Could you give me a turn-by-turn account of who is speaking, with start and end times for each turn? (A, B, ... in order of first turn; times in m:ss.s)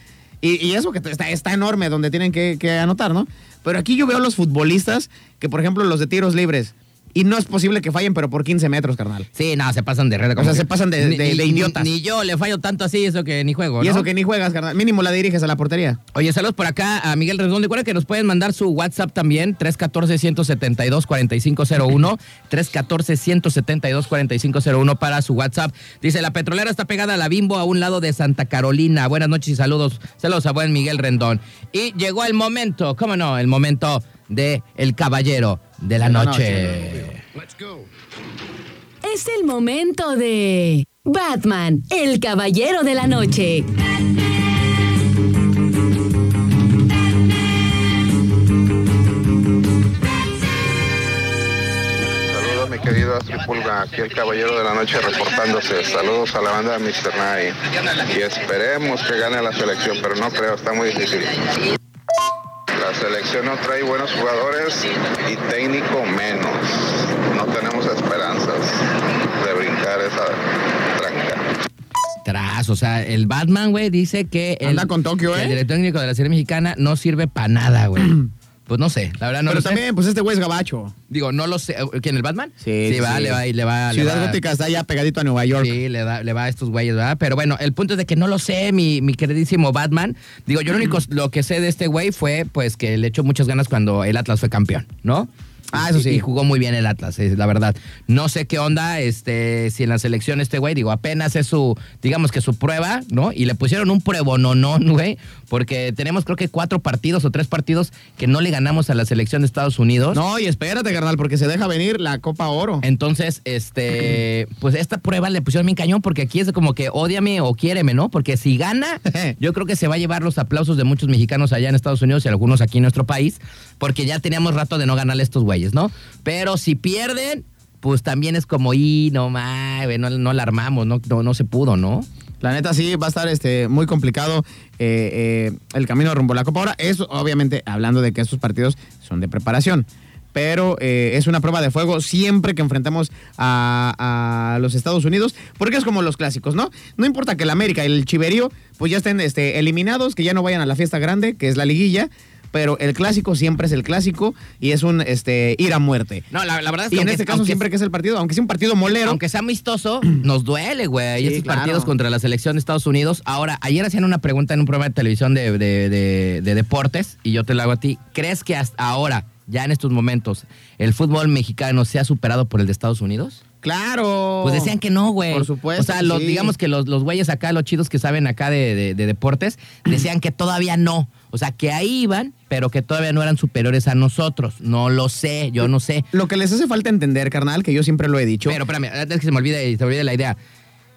0:00.4-0:09.3 A
0:09.4-0:14.1 B
0:10.4-0:11.9 A
0:13.8-0:16.0 A
0:16.1-0:37.2 B
0:36.0-0:37.1 A
0:39.0-0:43.7 C
0:52.1-1:01.6 D
1:02.7-1:11.4 D
1:12.2-1:19.8 B
1:14.6-1:15.6 A
1:19.5-1:20.9 A
1:21.1-1:24.4 B
1:22.6-1:25.8 A
1:25.5-1:50.2 B
1:35.7-1:36.2 A
1:50.1-1:52.8 A
1:52.8-2:12.1 B
1:59.1-1:59.3 A
2:12.4-2:36.3 A
2:36.3-2:37.7 B
2:36.9-2:39.2 A
2:39.0-2:53.4 B
2:41.2-2:41.9 A
2:53.6-2:54.7 A
2:54.4-3:06.1 B
2:55.3-2:56.5 A
3:06.1-3:08.6 A
3:08.4-3:10.4 B